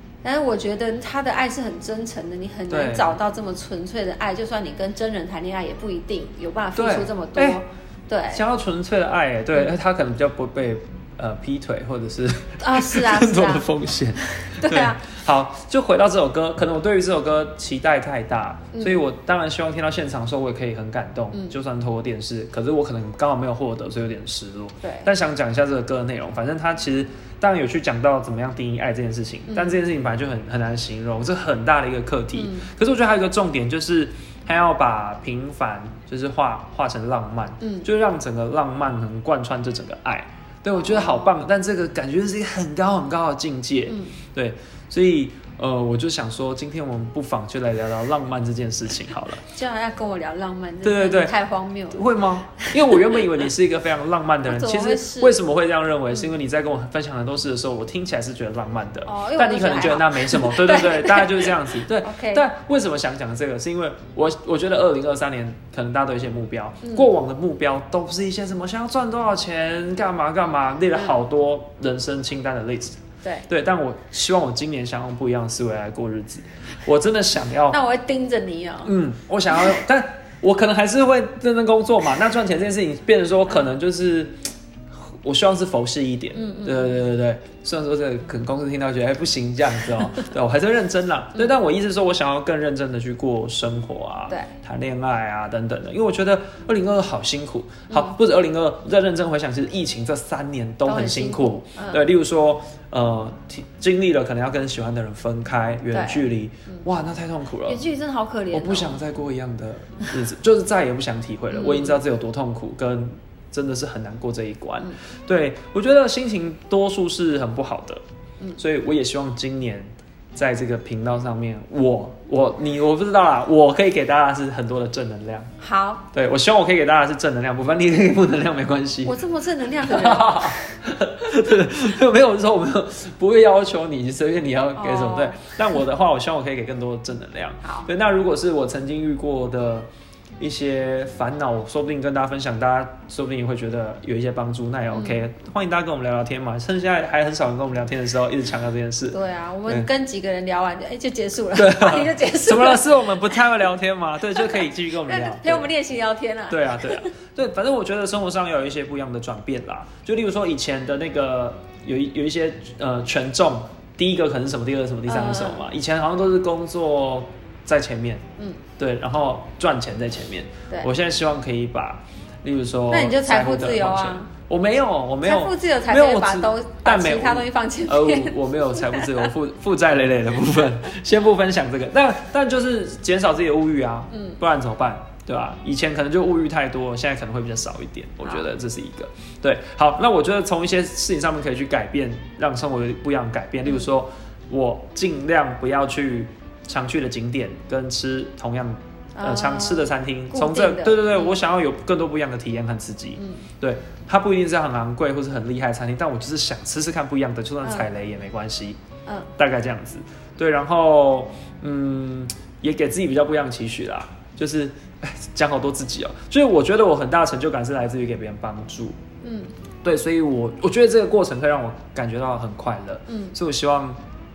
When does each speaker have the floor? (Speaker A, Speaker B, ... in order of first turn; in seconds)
Speaker A: 0.2-8.4, 12.6-13.7, 14.4-15.0, 18.7-19.1, 24.8-25.1, 29.5-29.8, 32.4-32.7, 37.6-37.9, 40.8-41.4, 43.9-44.2, 49.5-53.3, 54.5-55.4, 59.1-62.5, 66.8-67.1, 77.7-79.0, 86.3-87.0, 97.9-98.2, 100.8-102.0, 105.9-106.8, 107.7-109.0, 111.5-112.0, 125.6-126.1, 129.1-130.7, 134.8-135.5, 144.9-145.2, 149.1-152.9, 154.4-157.1, 165.1-165.7, 168.4-168.6, 172.9-174.3, 175.2-179.3, 184.1-184.4, 199.2-201.4, 203.2-203.5, 207.6-207.9, 219.2-219.5, 223.1-223.4
Speaker B: 2.7-3.1, 6.8-7.6, 8.3-49.5, 50.8-51.4, 51.9-77.8, 78.8-84.4, 85.0-107.8, 108.5-118.0, 118.6-125.5, 126.1-129.2, 129.8-139.9, 140.4-149.9, 151.6-155.7, 156.5-168.2, 168.8-208.8, 209.4-219.0, 219.8-224.0